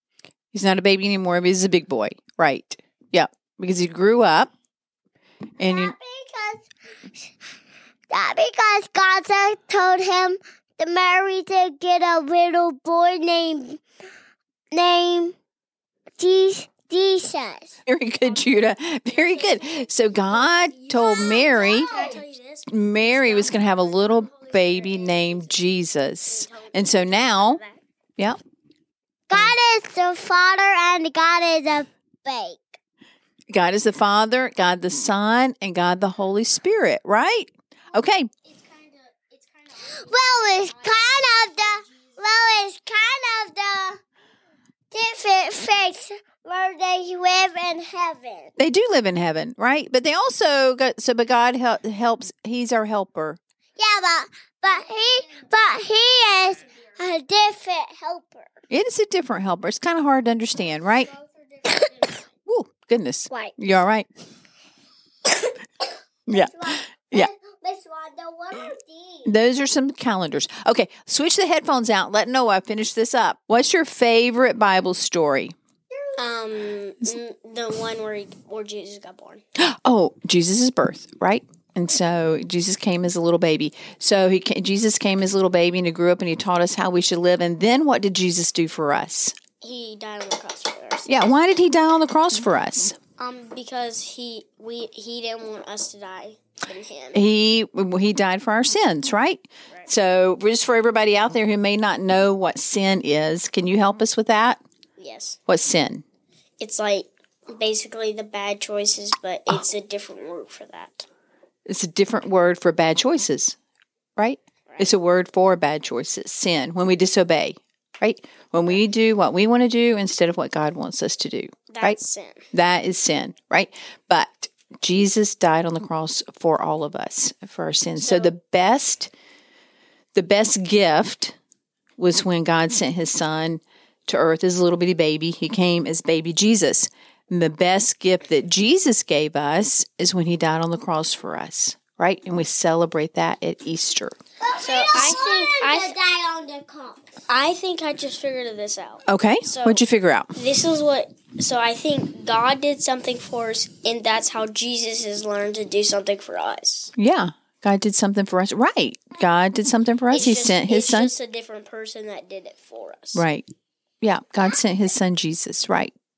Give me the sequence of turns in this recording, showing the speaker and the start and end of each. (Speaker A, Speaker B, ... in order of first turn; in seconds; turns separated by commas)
Speaker A: 0.5-4.5, Speaker A: 5.6-5.9, Speaker B: 5.6-6.7, Speaker B: 8.1-13.8, Speaker B: 14.7-15.3, Speaker B: 16.2-17.8, Speaker A: 17.9-27.6, Speaker C: 19.1-25.6, Speaker B: 20.9-22.2, Speaker C: 26.3-27.8, Speaker B: 29.3-32.8, Speaker A: 33.5-38.3, Speaker C: 38.5-42.1, Speaker B: 39.8-44.0, Speaker B: 44.9-48.5, Speaker A: 48.6-53.4, Speaker B: 53.8-58.5, Speaker A: 58.7-61.1, Speaker C: 61.2-62.1, Speaker A: 62.4-64.1, Speaker A: 66.3-67.3, Speaker B: 66.3-69.3, Speaker A: 69.2-75.5, Speaker C: 76.2-79.4, Speaker A: 79.6-89.3, Speaker C: 89.6-91.2, Speaker A: 91.1-93.0, Speaker C: 93.2-97.2, Speaker A: 97.1-104.6, Speaker C: 105.0-105.4, Speaker A: 105.5-106.0, Speaker C: 106.6-111.0, Speaker A: 111.7-113.5, Speaker A: 114.2-122.0, Speaker C: 121.7-122.5, Speaker A: 122.5-129.1, Speaker C: 128.0-128.3, Speaker A: 130.1-131.3, Speaker A: 132.0-144.1, Speaker B: 144.4-147.1, Speaker C: 144.6-145.9, Speaker C: 147.3-149.8, Speaker A: 149.1-150.3, Speaker C: 150.3-156.9, Speaker A: 157.0-161.1, Speaker C: 160.1-163.2, Speaker A: 163.1-163.4, Speaker A: 164.0-165.9